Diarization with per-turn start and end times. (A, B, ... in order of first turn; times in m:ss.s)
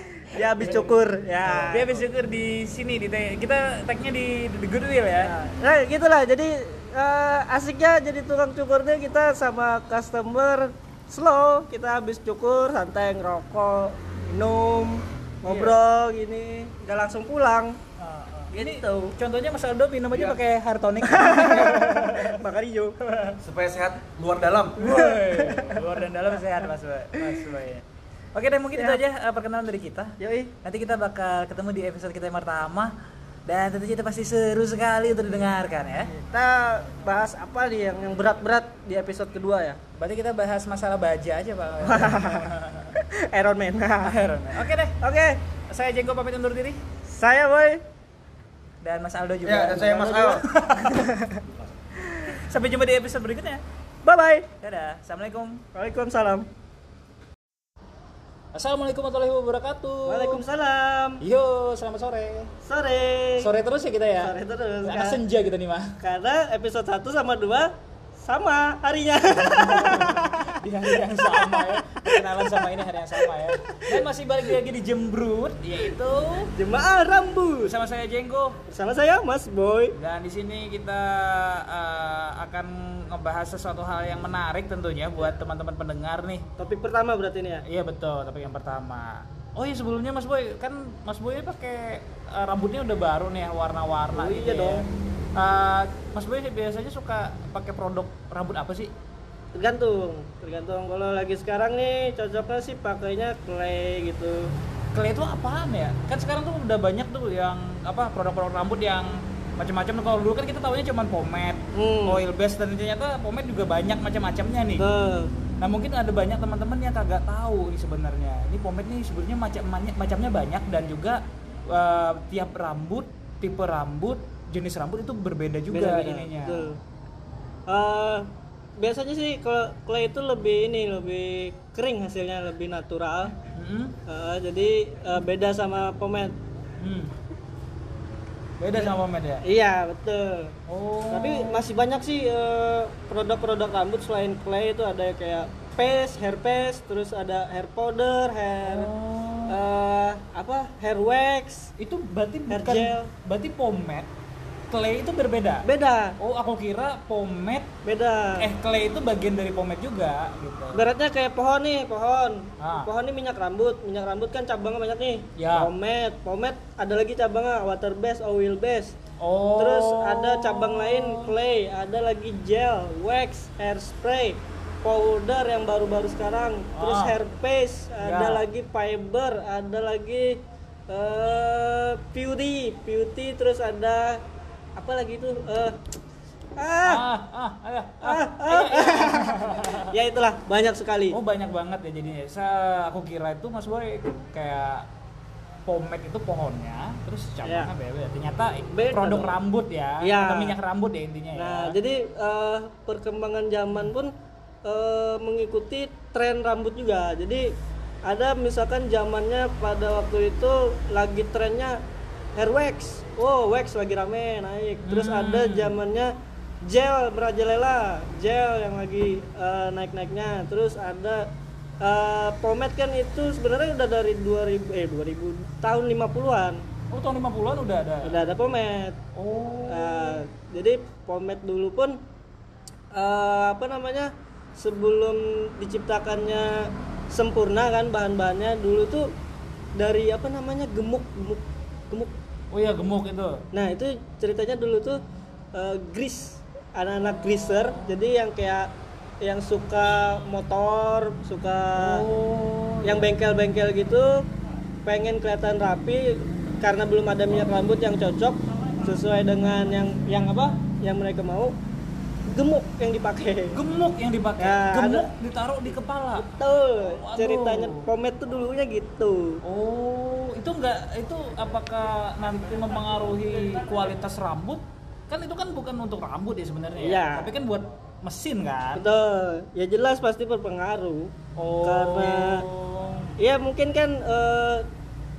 0:00.2-0:02.0 A
0:01.6-0:05.3 B
0:05.2-0:17.8 A
0:15.4-0:15.8 B
0:18.0-0:22.4 B
0:18.5-0:19.1 A
0:20.1-0:20.4 C
0:21.0-0:23.0 A
0:23.0-0:23.4 B
0:23.4-0:24.8 C
0:24.8-0:32.9 B
0:24.8-0:25.9 A
0:30.2-0:30.5 A
0:33.4-0:36.1 B
0:36.1-0:39.8 A
0:40.0-0:42.9 B
0:41.8-0:44.2 A
0:44.0-0:45.0 B
0:45.0-0:45.4 A
0:45.7-0:46.8 B
0:47.1-0:47.8 A
0:48.8-0:51.2 B
0:49.4-0:50.4 C
0:50.0-0:50.3 A
0:52.1-0:53.6 B
0:54.0-0:54.5 A
0:54.6-0:55.6 B
0:55.7-0:56.5 A
0:58.5-1:00.4 B
1:00.1-1:01.2 A
1:01.2-1:02.5 B
1:02.6-1:03.5 A
1:03.4-1:04.3 B
1:04.2-1:05.2 A
1:04.8-1:06.0 B
1:06.0-1:10.4 A
1:09.4-1:16.5 B
1:11.0-1:13.9 A
1:16.5-1:17.7 A
1:17.6-1:18.6 B
1:18.7-1:19.9 A
1:19.9-1:26.4 B
1:26.6-1:27.6 A
1:27.6-1:38.9 B
1:34.1-1:34.8 A
1:39.5-1:44.5 A
1:44.9-1:54.8 B
1:51.7-1:52.2 A
1:54.8-1:55.3 A
1:55.6-2:06.7 B
2:05.7-2:06.8 A
2:07.7-2:13.3 A
2:13.5-2:14.0 B
2:14.1-2:16.4 A
2:16.8-2:17.1 B
2:18.6-2:19.4 B
2:19.4-2:20.5 A
2:20.7-2:21.6 B
2:21.1-2:28.9 A
2:28.6-2:29.6 B
2:29.5-2:31.7 A
2:31.8-2:34.1 B
2:32.5-2:33.1 A
2:34.7-2:35.7 B
2:35.6-2:36.2 A
2:36.2-2:37.7 B
2:37.8-2:38.5 A
2:38.4-2:40.9 B
2:40.7-2:49.0 A
2:42.6-2:42.9 B
2:45.4-2:45.7 B
2:49.2-2:51.3 B
2:49.6-3:04.2 A
2:56.7-2:57.2 B
2:58.0-2:58.4 B
3:04.8-3:05.8 A
3:06.6-3:07.0 A
3:06.8-3:09.9 B
3:08.0-3:11.2 A
3:11.1-3:14.9 B
3:15.7-3:21.8 B
3:17.4-3:17.7 A
3:18.7-3:19.4 A
3:20.0-3:20.6 A
3:21.3-3:24.1 A
3:24.6-3:27.5 A
3:28.0-3:31.8 A
3:32.3-3:36.1 A
3:34.8-3:35.8 B
3:36.6-3:41.3 A
3:41.8-3:46.6 A
3:46.9-3:48.2 B
3:48.0-3:49.0 A
3:49.2-3:50.2 B
3:49.7-3:52.0 A
3:52.9-3:59.1 A
3:59.7-4:02.1 A
4:02.5-4:03.4 B
4:03.5-4:05.0 A
4:05.5-4:08.7 A
4:09.2-4:12.0 A
4:11.8-4:13.1 B
4:12.8-4:14.2 A
4:14.8-4:21.5 A
4:22.3-4:23.6 A
4:23.5-4:26.3 B
4:24.4-4:25.1 A
4:26.2-4:29.4 A
4:26.9-4:27.9 B
4:29.4-4:38.8 B
4:36.8-4:37.3 A
4:38.8-4:42.4 A
4:41.4-4:43.1 B
4:43.2-4:44.7 A